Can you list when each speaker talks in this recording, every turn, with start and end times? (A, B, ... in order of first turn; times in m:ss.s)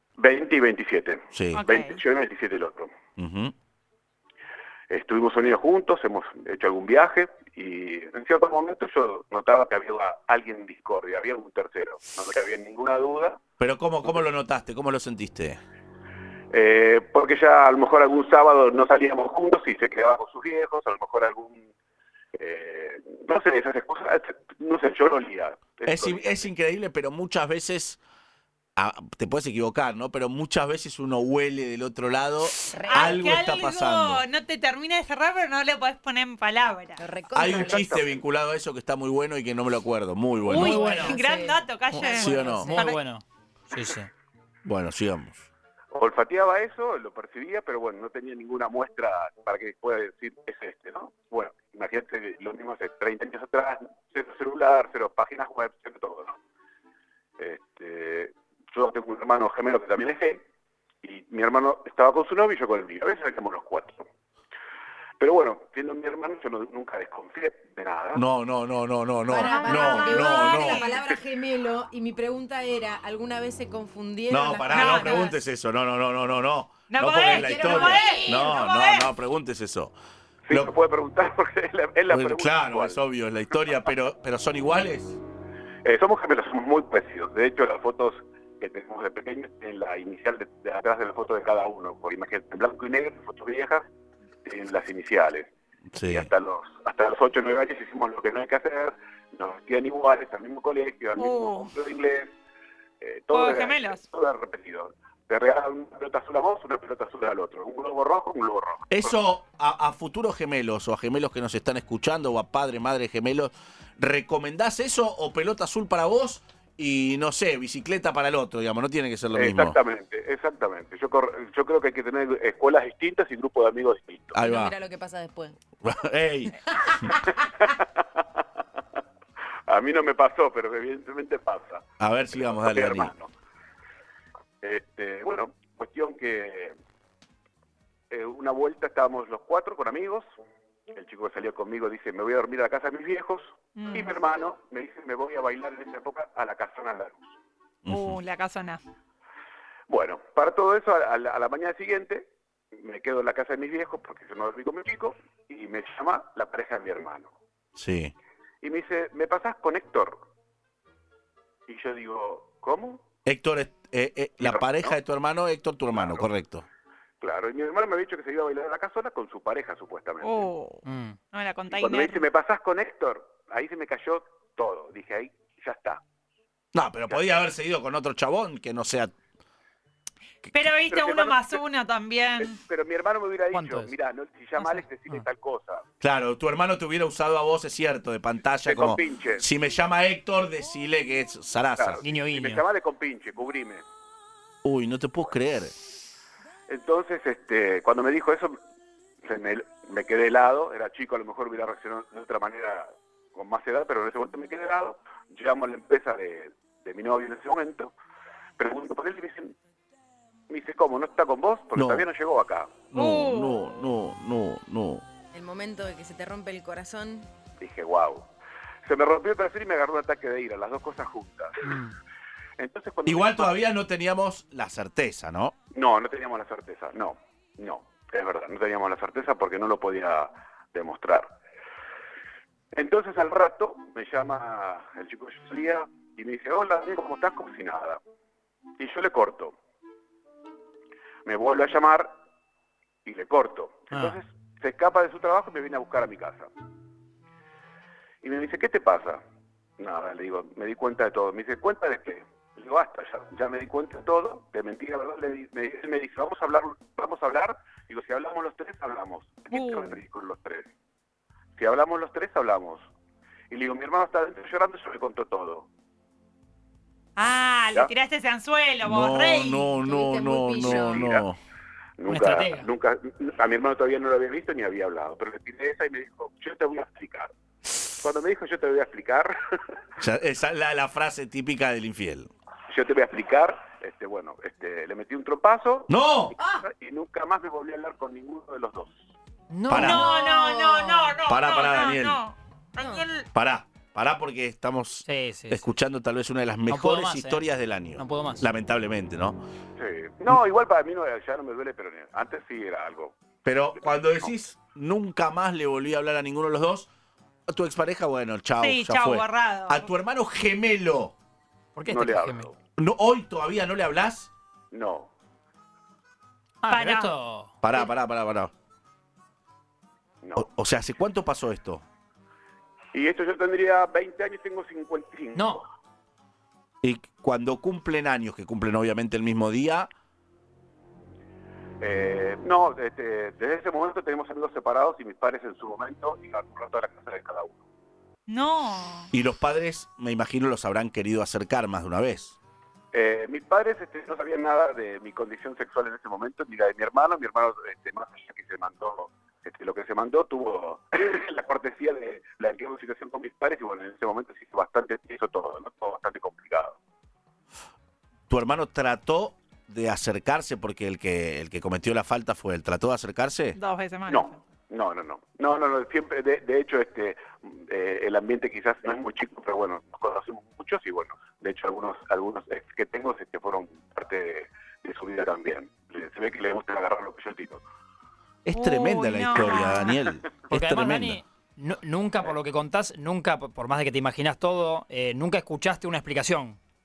0:00.2-0:02.9 A
0:01.3-0:01.6 B
0:01.5-0:02.0 C
0:03.2-0:03.5 B
0:04.9-0:13.4 A
0:13.6-0:15.6 B
0:16.5-0:21.7 A
0:22.4-0:26.5 A
0:25.8-0:28.0 B
0:28.8-0:34.2 B
0:32.7-0:33.2 D
0:32.8-0:37.0 C
0:37.0-0:37.9 D
0:37.4-0:41.1 B
0:37.4-0:38.2 A
0:40.4-0:42.7 D
0:40.5-0:43.0 C
0:40.5-0:41.2 E
0:42.0-0:42.8 B
0:42.6-0:44.1 E
0:44.6-0:45.5 B
0:45.9-0:56.4 A
0:57.4-1:00.4 A
1:01.0-1:04.1 A
1:05.2-1:08.2 A
1:08.2-1:10.8 B
1:09.3-1:15.4 D
1:09.3-1:11.0 C
1:14.3-1:19.9 B
1:14.7-1:15.3 C
1:16.9-1:19.1 C
1:17.2-1:18.6 D
1:20.5-1:23.0 A
1:22.1-1:25.2 B
1:25.8-1:33.8 A
1:34.4-1:35.5 A
1:35.9-1:36.3 B
1:36.1-1:42.4 A
1:41.2-1:41.7 C
1:43.0-1:49.1 A
1:43.3-1:44.0 C
1:48.9-1:59.8 B
1:59.4-2:04.4 A
2:04.3-2:04.7 B
2:04.4-2:05.6 D
2:05.8-2:06.6 B
2:06.7-2:07.3 D
2:07.1-2:08.4 A
2:09.7-2:13.3 A
2:12.0-2:13.1 B
2:14.6-2:16.8 A
2:18.1-2:20.2 A
2:20.9-2:27.3 A
2:23.8-2:24.1 C
2:27.8-2:28.2 B
2:27.9-2:28.8 C
2:29.9-2:37.3 A
2:37.8-2:38.1 B
2:38.6-2:40.2 A
2:41.7-2:43.0 A
2:43.2-2:46.7 B
2:44.4-2:45.0 A
2:46.0-2:46.3 A
2:47.2-2:50.5 A
2:50.2-2:52.3 C
2:50.8-2:51.2 E
2:51.7-2:56.0 A
2:56.7-2:59.1 B
3:00.5-3:02.6 C
3:00.9-3:01.6 A
3:02.4-3:05.8 A
3:03.5-3:03.9 E
3:04.6-3:05.2 E
3:06.0-3:12.0 B
3:08.7-3:09.4 A
3:11.8-3:13.8 A
3:12.0-3:12.6 E
3:14.6-3:15.8 B
3:16.7-3:18.6 A
3:19.2-3:27.9 A
3:28.6-3:29.6 A
3:30.5-3:32.8 A
3:31.8-3:32.1 B
3:32.9-3:35.0 B
3:33.0-3:33.5 C
3:35.3-3:37.3 D
3:37.6-3:38.3 A
3:38.8-3:41.8 A
3:41.6-3:41.9 E
3:42.6-3:43.5 A
3:43.1-3:45.5 B
3:45.7-3:51.3 A
3:52.7-3:58.0 A
3:58.8-3:59.6 A
4:01.3-4:02.1 A
4:03.0-4:06.5 A
4:03.9-4:04.2 E
4:08.2-4:09.2 A
4:09.8-4:20.7 A
4:19.5-4:20.0 C
4:21.6-4:22.9 A
4:23.5-4:25.7 A
4:27.2-4:29.7 C
4:28.8-4:31.4 B
4:29.7-4:31.1 D
4:30.6-4:31.3 A
4:32.0-4:37.3 A
4:32.1-4:32.7 E
4:38.0-4:39.4 A
4:40.0-4:42.3 B
4:42.7-4:49.0 A
4:45.9-4:46.4 B
4:46.4-4:46.6 D
4:49.5-4:50.3 E
4:49.7-4:50.1 B
4:49.7-4:53.3 C
4:50.2-4:51.2 D
4:51.3-4:52.2 B
4:52.8-4:53.1 D
4:53.3-4:59.4 B
4:55.0-4:55.7 E
4:56.7-4:57.4 E
4:58.0-4:58.5 E
4:59.8-5:03.2 A
5:03.4-5:06.9 B
5:03.8-5:04.3 A
5:07.5-5:11.2 B
5:08.6-5:09.9 C
5:11.8-5:12.5 E
5:11.8-5:12.6 A
5:12.8-5:14.3 B
5:14.7-5:15.1 A
5:16.6-5:17.6 E
5:16.7-5:17.1 C
5:17.6-5:18.5 B
5:20.2-5:20.5 A
5:20.4-5:21.8 B
5:22.9-5:25.6 A
5:25.4-5:25.6 E
5:26.8-5:29.9 B
5:31.8-5:37.6 A
5:38.3-5:39.1 C
5:39.1-5:42.4 B
5:42.9-5:56.8 A
5:58.3-6:03.6 B
6:03.6-6:04.4 C
6:04.1-6:17.6 A
6:18.4-6:21.2 B
6:18.5-6:20.0 C
6:20.5-6:26.6 E